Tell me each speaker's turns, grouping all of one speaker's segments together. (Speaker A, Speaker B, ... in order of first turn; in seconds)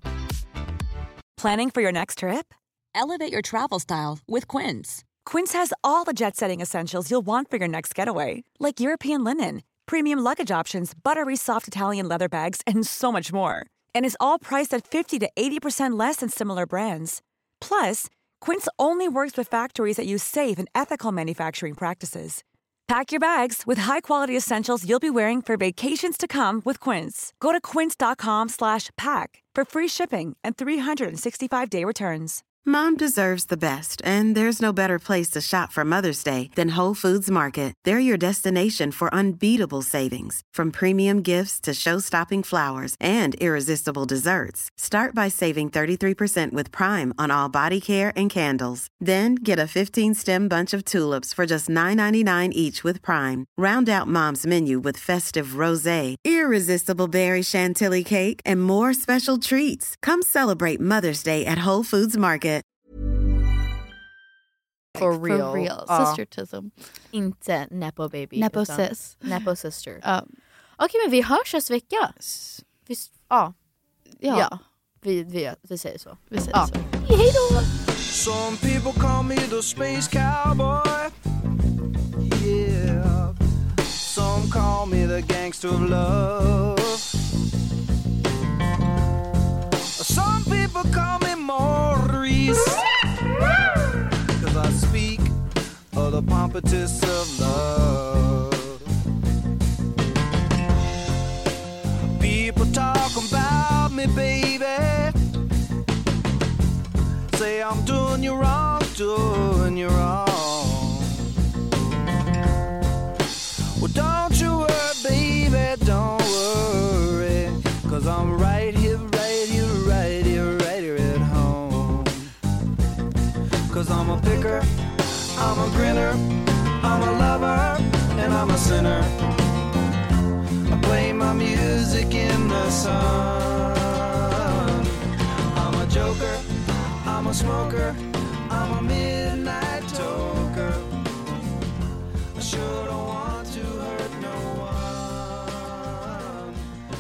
Speaker A: 1.4-32.4
Speaker B: 32.6-62.6
Speaker C: 65.0-66.7, 68.4-69.4, 70.0-70.3, 72.2-72.6, 74.2-74.5, 76.3-76.8
Speaker D: 65.0-66.2, 67.1-70.0, 70.8-72.2, 72.9-73.5, 74.3-77.5
Speaker E: 78.1-81.1, 82.2-83.3, 84.0-87.1, 90.0-92.9, 94.3-95.3, 95.9-98.8, 102.2-105.2, 107.3-111.3, 113.8-122.3, 123.7-124.7, 125.3-129.2, 130.7-135.0, 135.5-136.5, 137.0-141.0, 142.4-146.7